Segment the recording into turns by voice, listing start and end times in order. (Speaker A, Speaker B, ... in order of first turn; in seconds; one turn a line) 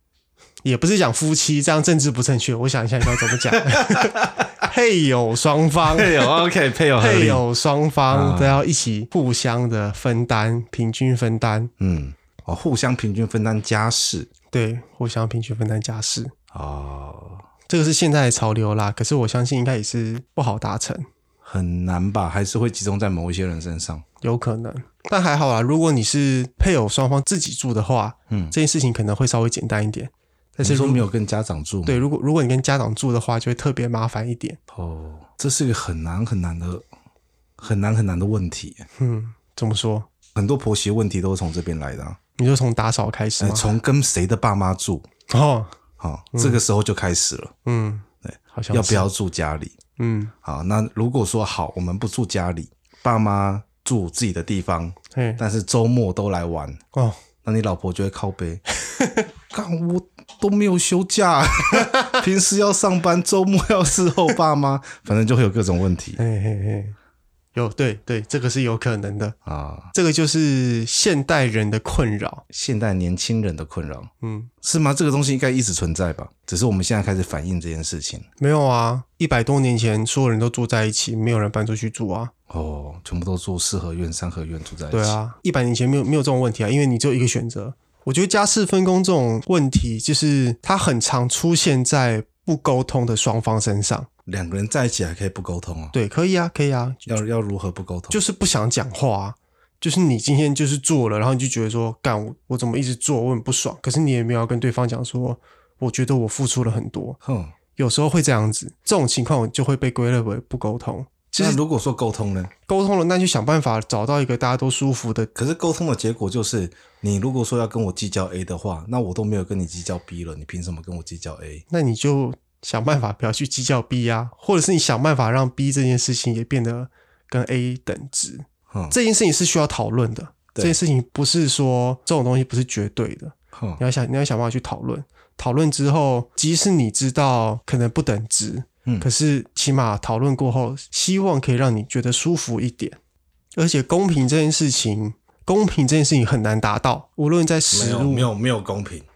Speaker A: 0.6-6.3
Speaker B: 3.5-4.3
Speaker B: 5.9-7.4
Speaker A: 7.0-11.7
Speaker B: 8.1-8.6
Speaker B: 11.8-14.3
Speaker A: 14.5-16.3
Speaker B: 16.5-17.4
Speaker A: 17.7-21.1
Speaker B: 21.4-24.0
Speaker A: 24.2-31.1
Speaker B: 28.3-28.5
Speaker B: 30.6-32.0
Speaker A: 31.9-34.6
Speaker B: 34.7-36.9
Speaker B: 37.6-38.9
Speaker A: 39.0-40.1
Speaker B: 40.4-42.2
Speaker A: 42.4-43.7
Speaker B: 43.4-45.1
Speaker A: 45.3-45.7
Speaker B: 46.0-47.5
Speaker A: 46.3-46.6
Speaker A: 47.6-49.1
Speaker B: 48.2-49.7
Speaker A: 50.0-50.3
Speaker B: 50.4-56.8
Speaker A: 55.1-55.4
Speaker B: 57.4-58.6
Speaker A: 58.9-59.2
Speaker B: 59.5-66.2
Speaker A: 66.2-67.0
Speaker A: 67.5-69.4
Speaker B: 69.5-69.9
Speaker A: 69.9-72.4
Speaker B: 72.5-74.1
Speaker A: 74.2-74.5
Speaker B: 74.6-78.3
Speaker A: 78.4-82.3
Speaker B: 82.5-85.2
Speaker A: 84.9-94.1
Speaker B: 94.3-96.0
Speaker A: 95.9-97.1
Speaker B: 97.1-98.2
Speaker A: 98.1-107.2
Speaker B: 107.2-107.5
Speaker A: 107.8-111.6
Speaker B: 111.4-112.5
Speaker A: 112.7-115.3
Speaker B: 115.3-121.6
Speaker A: 121.7-143.0
Speaker B: 133.5-133.8
Speaker A: 143.6-148.3
Speaker B: 147.7-149.1